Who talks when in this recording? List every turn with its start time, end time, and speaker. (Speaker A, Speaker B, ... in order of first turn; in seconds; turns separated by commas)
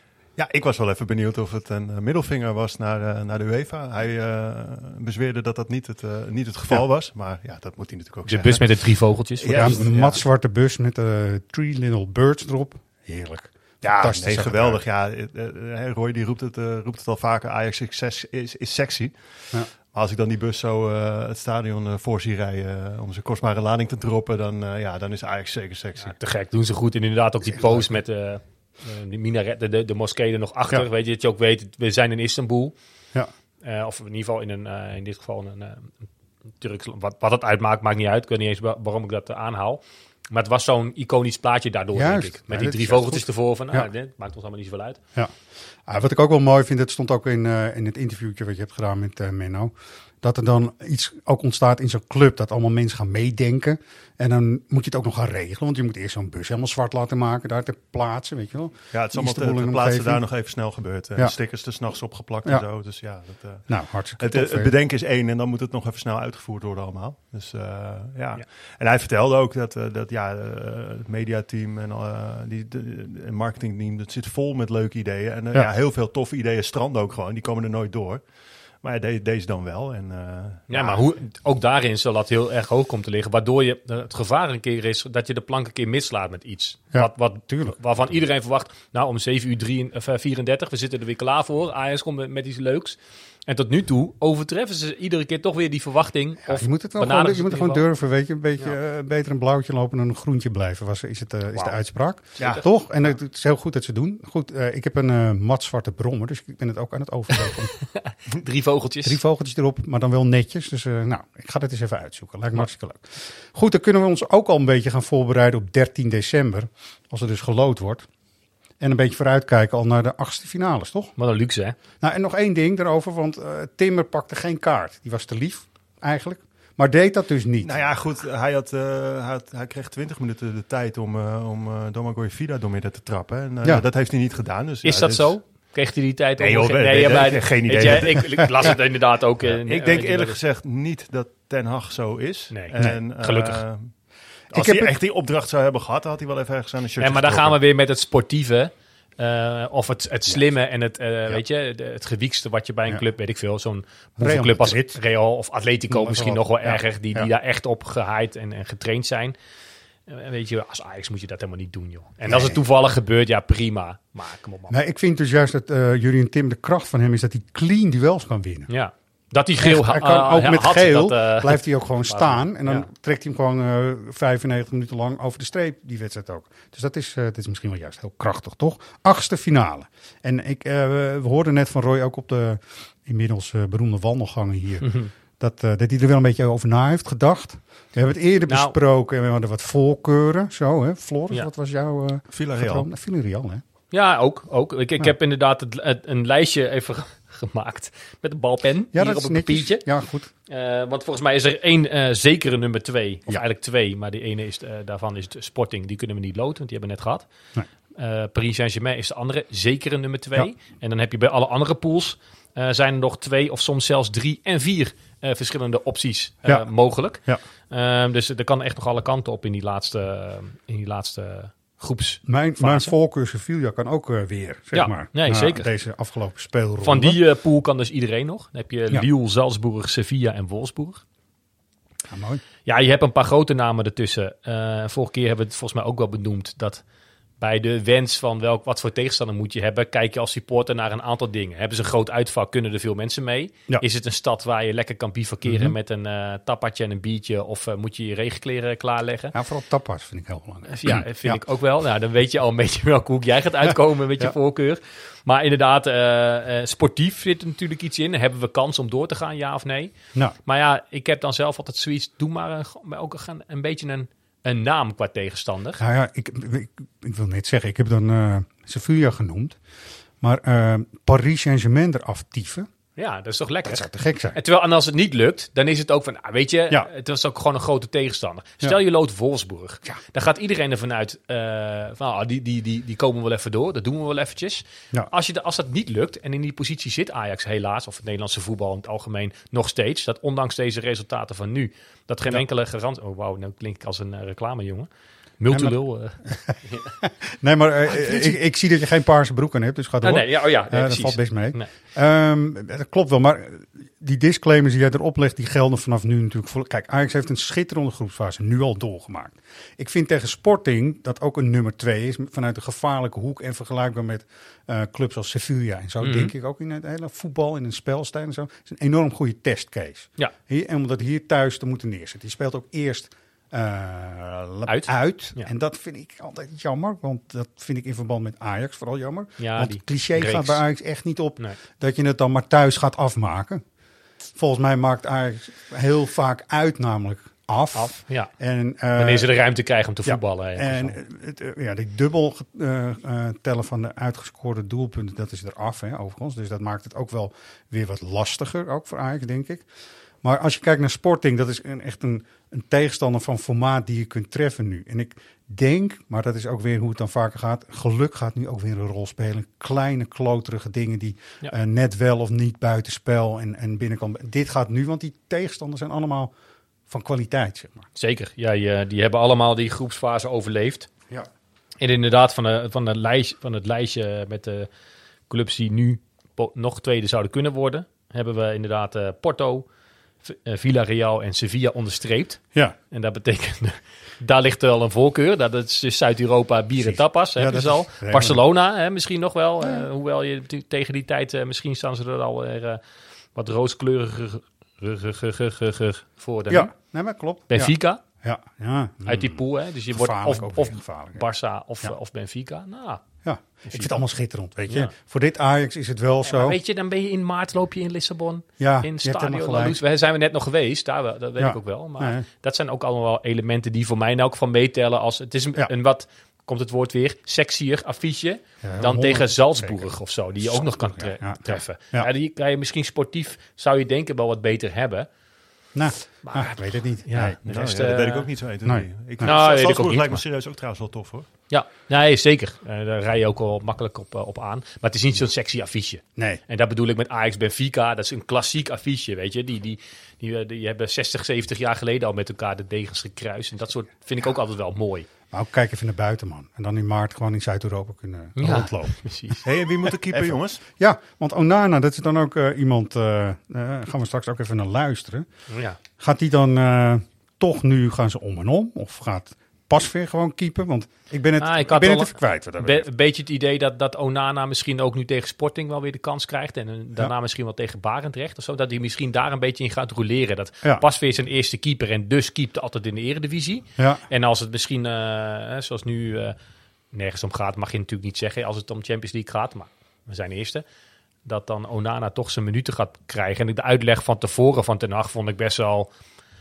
Speaker A: 0.3-10.2, Speaker B: 8.2-10.1, Speaker C: 9.5-14.8, Speaker A: 13.8-26.2, Speaker B: 26.0-32.7, Speaker C: 27.4-27.9, Speaker B: 33.6-35.9, Speaker B: 36.6-45.0, Speaker C: 41.9-43.9, Speaker C: 45.9-60.2, Speaker A: 58.9-78.2, Speaker C: 63.7-64.7, Speaker A: 78.8-81.0, Speaker B: 80.7-97.8, Speaker C: 86.9-87.8, Speaker C: 96.4-107.7, Speaker B: 101.5-103.1, Speaker B: 108.0-109.2, Speaker C: 109.0-118.1, Speaker C: 118.8-121.1, Speaker B: 121.2-121.7, Speaker C: 122.0-127.9, Speaker A: 127.6-135.3, Speaker B: 134.8-140.4, Speaker A: 136.4-138.8, Speaker A: 139.4-143.9, Speaker B: 142.5-143.6, Speaker C: 144.5-144.9, Speaker A: 144.5-147.6, Speaker B: 147.0-159.3, Speaker C: 154.2-155.0, Speaker C: 155.9-157.3, Speaker B: 160.1-164.7, Speaker C: 162.2-162.6, Speaker C: 164.7-168.7, Speaker B: 168.7-172.9, Speaker C: 169.6-193.6, Speaker B: 184.8-185.1, Speaker B: 188.5-188.8, Speaker A: 192.3-192.9, Speaker B: 193.9-199.8, Speaker C: 198.9-200.3, Speaker B: 200.5-207.2, Speaker B: 208.0-222.9, Speaker C: 216.4-217.4, Speaker C: 222.2-227.2, Speaker B: 224.7-225.7, Speaker B: 226.8-231.0, Speaker C: 232.1-232.4, Speaker B: 232.7-236.8, Speaker B: 237.4-249.3, Speaker C: 245.4-245.7, Speaker C: 249.3-251.4, Speaker B: 250.7-259.9, Speaker C: 253.7-254.3, Speaker B: 260.4-265.8, Speaker C: 265.8-269.6, Speaker C: 270.2-272.7, Speaker B: 273.0-273.8, Speaker C: 273.6-274.4, Speaker B: 274.3-294.9, Speaker B: 295.4-296.9, Speaker C: 295.5-333.6, Speaker B: 297.9-298.4, Speaker B: 300.0-301.7, Speaker B: 316.0-316.3, Speaker B: 324.7-325.5, Speaker B: 329.4-330.6, Speaker C: 334.3-339.3, Speaker B: 337.7-338.3, Speaker B: 338.9-341.0, Speaker C: 340.0-349.6, Speaker C: 350.2-366.3, Speaker C: 366.9-367.9, Speaker B: 367.9-370.9, Speaker B: 371.8-374.7, Speaker B: 375.3-379.6, Speaker B: 380.2-392.8, Speaker C: 386.8-388.4, Speaker C: 389.6-389.9, Speaker B: 393.4-396.7, Speaker C: 396.5-401.3, Speaker B: 397.5-398.0, Speaker B: 399.1-403.0, Speaker C: 403.2-406.6, Speaker B: 406.2-425.1, Speaker C: 408.6-409.8, Speaker C: 411.4-412.2, Speaker C: 418.6-422.1, Speaker C: 425.7-427.4, Speaker B: 426.2-428.3, Speaker A: 427.4-431.3, Speaker C: 428.6-429.3, Speaker B: 429.2-430.2, Speaker B: 431.5-445.1, Speaker C: 436.1-436.4, Speaker C: 445.3-449.4, Speaker B: 448.4-449.4, Speaker A: 449.4-450.6, Speaker C: 450.1-455.3, Speaker B: 455.5-455.8, Speaker C: 456.0-462.9, Speaker B: 461.4-476.4, Speaker C: 473.8-474.0, Speaker B: 476.9-480.6, Speaker B: 481.2-485.9